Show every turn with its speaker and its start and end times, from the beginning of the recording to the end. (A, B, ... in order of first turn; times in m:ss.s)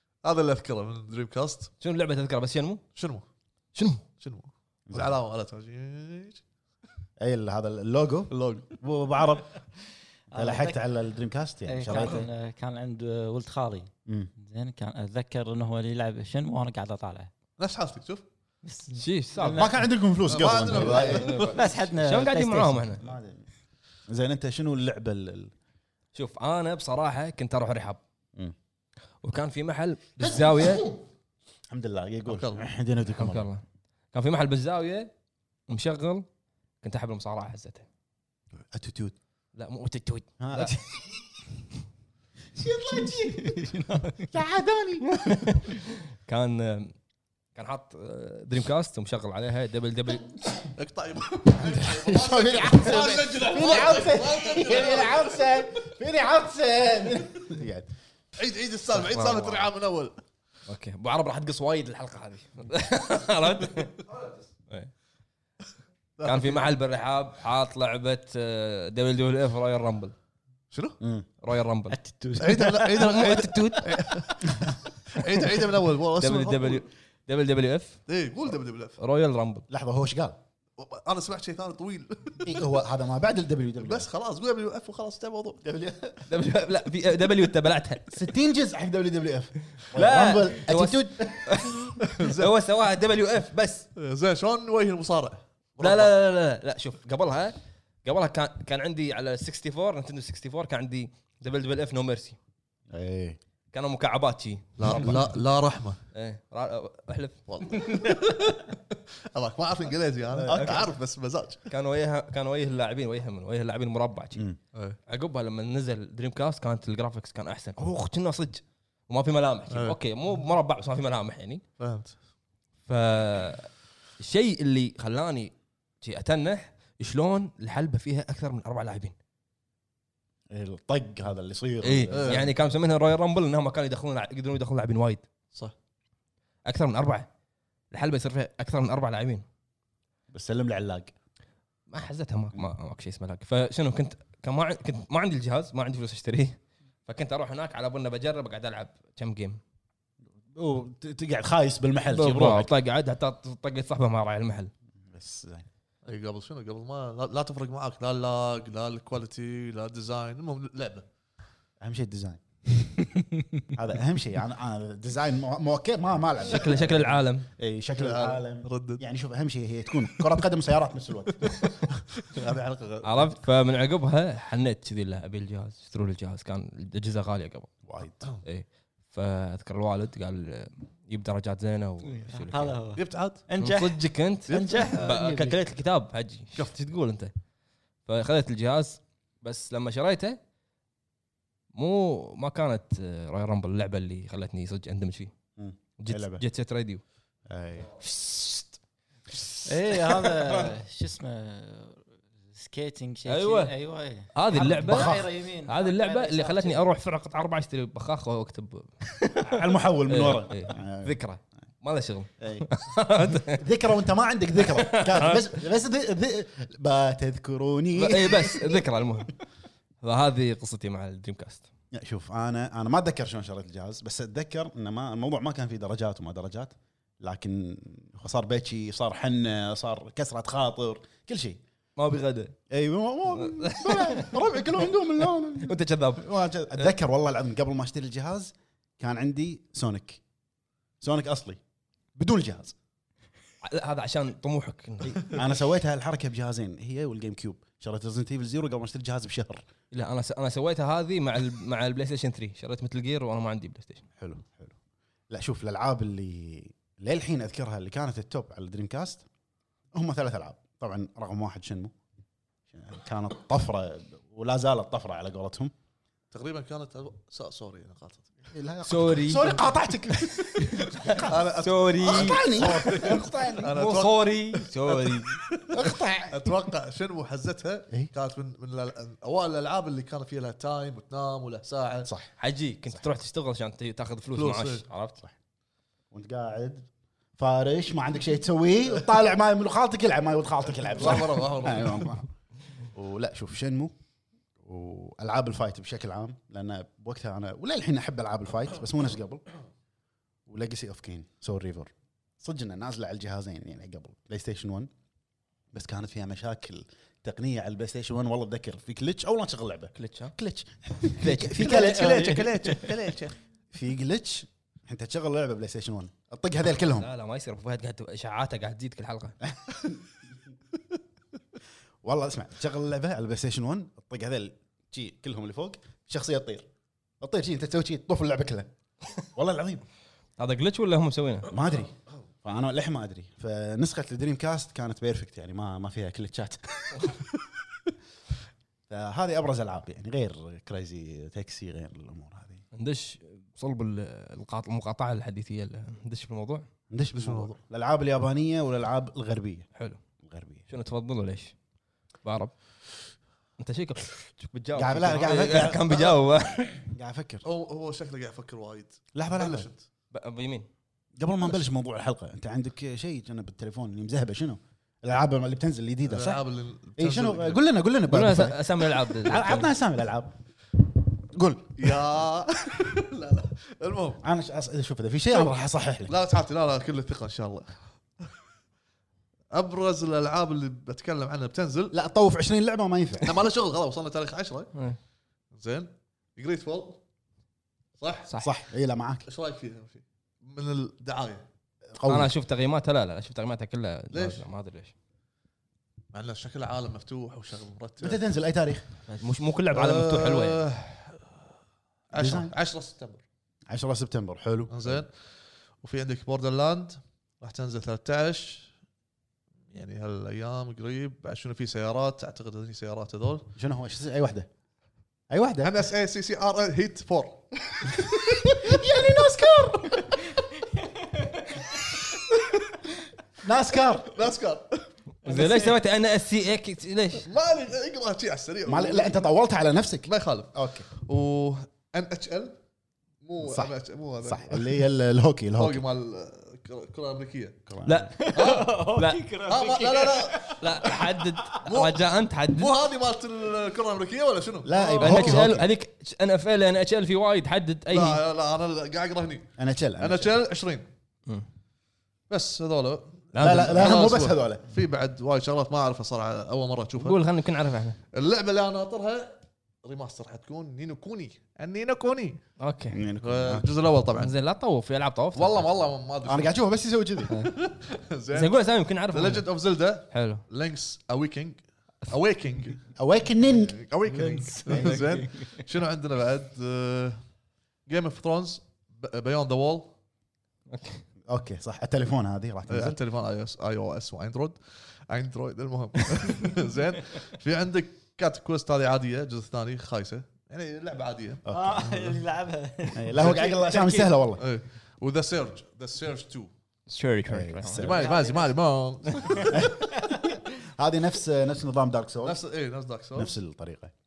0:00.2-0:01.7 A
0:01.8-0:02.8 B
0:03.0-0:03.2 A
0:03.7-0:04.0 B
0:04.2-0:06.4 A
0:04.9-0:05.2 C
0:07.2-0:09.6 C
0:08.3-0:08.7 A
0:10.3-0:10.8 D
0:10.3-0:12.2 C
0:11.6-0:17.3 D
0:14.0-0:14.3 C
0:17.6-0:18.2 A
0:18.6-0:19.8 D
0:18.9-0:19.8 B
0:19.5-0:21.4 C
0:20.3-0:21.6 A
0:20.7-0:22.9 D
0:21.0-0:23.0 B
0:23.0-0:23.5 C
0:24.1-0:25.5 C
0:26.1-0:28.0 B
0:29.2-0:30.8 B
0:30.2-0:31.0 C
0:31.7-0:33.5 C
0:32.3-0:32.7 A
0:33.1-0:35.1 B
0:35.7-0:36.2 B
0:36.8-0:37.8 B
0:38.7-0:39.1 C
0:39.5-0:40.8 B
0:40.4-0:41.0 C
0:42.6-0:43.7 C
0:43.0-0:44.3 D
0:44.2-0:45.4 C
0:45.1-0:46.9 B
0:47.5-0:50.4 B
0:50.8-0:55.6 A
0:51.6-0:57.9 C
0:58.4-1:00.2 A
0:58.9-0:59.7 B
1:00.7-1:04.1 B
1:06.2-1:06.7 A
1:06.2-1:10.1 B
1:10.7-1:11.0 A
1:11.0-1:11.3 C
1:11.4-1:12.0 B
1:11.9-1:14.0 D
1:12.4-1:16.8 A
1:12.9-1:13.9 B
1:16.2-1:18.0 B
1:18.1-1:19.0 A
1:19.0-1:19.6 B
1:19.7-1:20.4 C
1:20.8-1:22.6 A
1:22.4-1:24.1 C
1:23.8-1:25.6 A
1:25.6-1:26.2 C
1:26.3-1:28.2 B
1:28.1-1:31.6 C
1:29.9-1:33.9 B
1:32.0-1:32.5 A
1:34.0-1:36.1 A
1:35.8-1:42.4 B
1:42.9-1:43.4 C
1:43.7-1:45.3 B
1:44.8-1:46.0 A
1:46.1-1:47.4 B
1:47.5-1:51.6 A
1:50.3-1:50.9 C
1:51.7-1:54.4 B
1:55.1-2:01.6 B
1:59.7-2:00.0 A
2:01.8-2:02.1 A
2:02.9-2:09.1 B
2:10.5-2:12.5 C
2:11.8-2:15.2 B
2:12.1-2:12.5 A
2:16.6-2:17.3 B
2:17.9-2:19.4 B
2:20.3-2:21.1 C
2:21.9-2:29.6 B
2:30.5-2:32.7 C
2:32.1-2:34.7 B
2:35.1-2:35.6 C
2:36.0-2:41.1 A
2:41.8-2:42.9 C
2:43.7-2:51.8 C
2:46.4-2:47.5 B
2:47.9-2:49.0 A
2:50.1-2:50.4 A
2:51.4-2:53.4 A
2:53.0-3:02.8 B
2:57.8-2:58.2 C
3:02.1-3:05.5 D
3:03.0-3:03.4 A
3:03.6-3:07.3 B
3:04.5-3:05.0 A
3:08.0-3:10.4 B
3:11.7-3:15.3 B
3:15.6-3:16.4 C
3:16.0-3:17.0 B
3:17.5-3:18.6 C
3:19.6-3:26.9 D
3:23.3-3:23.7 B
3:24.3-3:33.7 B
3:24.5-3:25.2 C
3:29.4-3:31.2 C
3:32.4-3:32.7 C
3:33.4-3:38.8 C
3:34.6-3:35.5 B
3:38.0-3:39.3 B
3:40.0-3:41.7 B
3:41.9-3:51.6 C
3:52.0-3:52.6 B
3:52.7-4:00.2 C
3:53.4-3:54.4 B
3:55.5-3:56.9 B
4:01.0-4:01.6 C
4:02.2-4:02.7 C
4:03.6-4:05.4 B
4:05.0-4:09.6 C
4:09.9-4:14.0 B
4:14.2-4:14.8 C
4:15.3-4:19.2 C
4:19.9-4:21.9 C
4:22.7-4:25.7 C
4:26.3-4:28.5 A
4:28.5-4:31.4 C
4:28.8-4:35.4 B
4:31.0-4:42.1 A
4:32.0-4:33.7 C
4:35.7-4:36.5 C
4:42.0-4:42.3 C
4:42.4-4:45.2 B
4:44.4-4:44.8 A
4:46.1-4:46.9 C
4:47.4-4:52.3 C
4:50.9-4:52.2 A
4:52.9-4:53.9 C
4:54.6-4:59.4 C
5:00.5-5:04.9 C
5:05.7-5:12.5 C
5:10.0-5:10.3 B
5:11.1-5:12.8 B
5:11.5-5:13.4 A
5:13.7-5:17.1 C
5:16.9-5:19.4 B
5:19.5-5:20.0 C
5:22.0-5:26.7 C
5:27.2-5:28.7 C
5:29.3-5:29.8 C
5:30.4-5:31.5 B
5:31.5-5:37.1 C
5:38.9-5:42.6 C
5:42.7-5:46.6 B
5:46.9-5:49.7 C
5:47.2-5:47.5 A
5:49.8-5:50.0 B
5:50.2-5:50.6 C
5:50.7-5:51.5 B
5:52.2-5:52.5 B
5:53.6-5:56.9 B
5:54.7-5:56.2 C
5:56.9-5:57.4 C
5:57.4-5:59.8 A
5:59.1-5:59.7 C
6:00.1-6:00.7 B
6:01.2-6:06.4 C
6:06.0-6:07.6 A
6:07.0-6:10.3 C
6:08.1-6:09.7 B
6:11.2-6:12.0 C
6:11.8-6:14.2 A
6:14.2-6:16.1 C
6:16.1-6:18.3 A
6:19.5-6:21.9 A
6:21.9-6:23.4 C
6:23.2-6:24.7 A
6:25.5-6:27.0 A
6:28.0-6:28.3 A
6:28.4-6:29.2 C
6:29.2-6:31.5 A
6:31.9-6:32.3 C
6:32.0-6:34.9 B
6:34.1-6:34.4 A
6:36.1-6:38.2 A
6:38.0-6:38.9 C
6:39.1-6:40.7 B
6:39.7-6:41.4 A
6:42.1-6:43.2 A
6:42.1-6:42.5 C
6:43.7-6:45.0 C
6:44.7-6:45.1 A
6:45.8-6:48.7 A
6:49.7-6:53.5 A
6:53.6-6:54.5 C
6:55.3-6:55.7 C
6:55.6-6:58.8 A
6:58.4-7:00.2 C
7:00.8-7:01.6 D
7:03.4-7:04.1 C
7:04.0-7:04.9 A
7:05.2-7:07.3 B
7:05.2-7:05.7 D
7:07.2-7:09.2 A
7:08.6-7:10.9 C
7:10.0-7:12.6 A
7:13.2-7:14.8 A
7:13.4-7:15.8 C
7:15.6-7:17.6 A
7:17.7-7:18.1 C
7:17.8-7:19.2 B
7:18.1-7:21.6 D
7:18.3-7:18.7 A
7:19.4-7:20.6 A
7:20.5-7:22.7 B
7:21.6-7:25.5 A
7:24.6-7:25.7 C
7:25.0-7:28.2 B
7:27.9-7:30.9 A
7:29.6-7:30.3 C
7:32.3-7:37.2 A
7:33.3-7:34.0 B
7:33.4-7:34.6 C
7:37.0-7:38.0 B
7:38.1-7:42.4 A
7:42.6-7:43.0 B
7:42.9-7:43.7 C
7:43.2-7:44.3 A
7:44.2-7:45.6 B
7:45.3-7:46.5 A
7:46.2-7:47.3 C
7:47.3-7:52.8 A
7:48.3-7:49.5 B
7:50.1-7:50.4 B
7:53.0-7:55.0 C
7:53.5-7:57.2 A
7:54.2-7:55.4 D
7:57.9-7:59.9 A
8:00.7-8:01.0 B
8:01.3-8:03.0 C
8:02.7-8:11.4 A
8:11.4-8:11.8 C
8:11.5-8:14.2 D
8:12.9-8:14.4 C
8:14.4-8:16.5 A
8:16.9-8:17.9 B
8:17.3-8:18.1 C
8:17.8-8:19.7 A
8:17.8-8:18.6 D
8:19.5-8:22.4 C
8:22.2-8:23.3 A
8:23.1-8:23.9 C